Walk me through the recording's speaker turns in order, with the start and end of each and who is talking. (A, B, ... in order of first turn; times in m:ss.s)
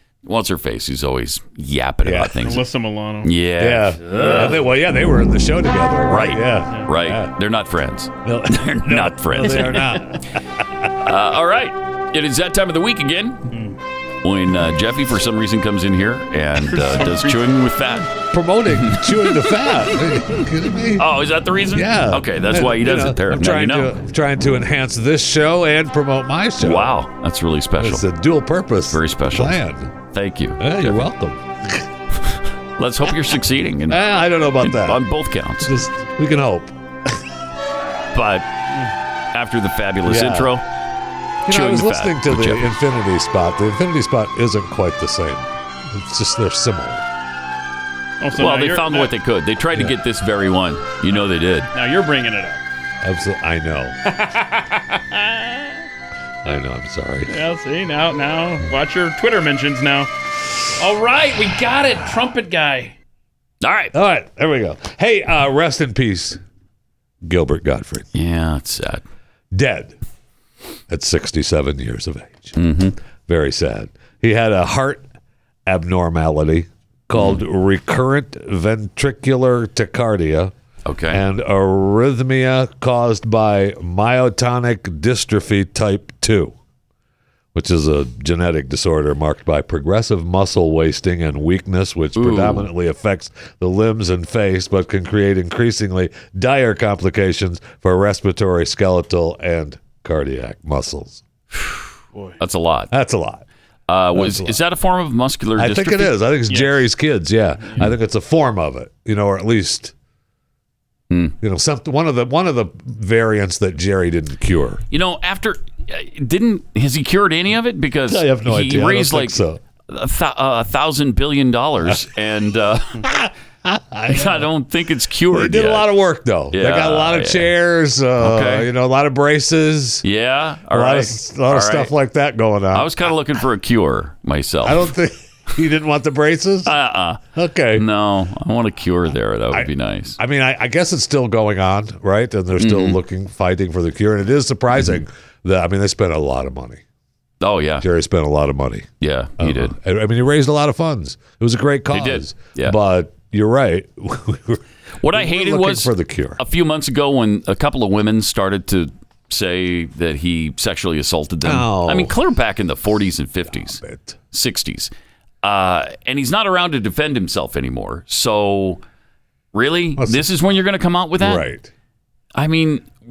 0:00.2-0:02.6 A
0:02.0-0:02.6 B
0:02.4-0:03.3 C
0:03.2-0:04.7 A
0:03.6-0:07.3 B
0:06.1-0:10.0 A
0:08.2-0:10.6 B
0:11.0-0:13.5 A
0:13.5-0:13.8 C
0:14.2-0:18.1 A
0:16.6-0:17.4 C
0:18.3-0:21.0 B
0:18.7-0:19.6 A
0:21.0-0:23.9 A
0:21.7-0:26.9 B
0:26.6-0:28.0 A
0:27.8-0:29.9 B
0:28.9-0:29.6 A
0:30.1-0:31.0 A
0:30.6-0:31.8 B
0:32.8-0:34.0 A
0:33.9-0:35.0 B
0:34.6-0:35.8 A
0:35.6-0:37.1 B
0:38.1-0:38.5 A
0:39.3-0:40.6 A
0:40.0-0:40.5 B
0:41.5-0:47.0 B
0:41.5-0:42.7 A
0:48.2-0:49.1 C
0:48.3-0:51.7 A
0:51.7-0:52.6 C
0:53.0-0:54.0 B
0:54.0-0:55.8 C
0:56.4-0:57.3 B
0:57.3-1:00.1 C
1:00.8-1:03.0 C
1:03.6-1:03.9 A
1:03.9-1:06.4 B
1:07.2-1:08.0 B
1:08.1-1:09.0 A
1:09.5-1:10.0 B
1:10.9-1:12.6 B
1:12.6-1:12.9 A
1:13.3-1:15.1 B
1:15.6-1:20.5 B
1:17.2-1:17.4 A
1:20.8-1:21.2 A
1:21.1-1:26.6 B
1:27.5-1:41.2 B
1:32.2-1:32.7 A
1:42.4-1:42.9 A
1:42.9-1:43.4 B
1:43.9-1:46.2 A
1:44.1-1:44.6 B
1:45.6-1:49.9 B
1:46.5-1:46.8 C
1:47.6-1:47.9 C
1:51.1-1:51.4 A
1:51.4-1:54.8 B
1:54.9-2:03.0 A
1:58.1-1:59.6 B
2:03.0-2:04.5 B
2:04.1-2:05.9 A
2:05.3-2:10.0 B
2:06.5-2:07.5 A
2:08.2-2:08.7 A
2:10.0-2:11.9 A
2:10.7-2:12.9 B
2:12.7-2:14.9 A
2:14.6-2:16.7 B
2:16.6-2:20.2 A
2:17.3-2:17.8 B
2:19.5-2:26.8 B
2:22.6-2:23.0 A
2:27.4-2:27.8 A
2:27.8-2:36.4 B
2:29.0-2:29.7 A
2:31.9-2:32.8 A
2:35.0-2:43.8 A
2:41.4-2:42.1 B
2:43.5-2:44.2 B
2:44.3-2:44.9 A
2:45.4-2:48.8 A
2:49.5-2:51.4 A
2:50.0-2:50.2 B
2:51.2-2:51.7 B
2:52.3-2:52.9 A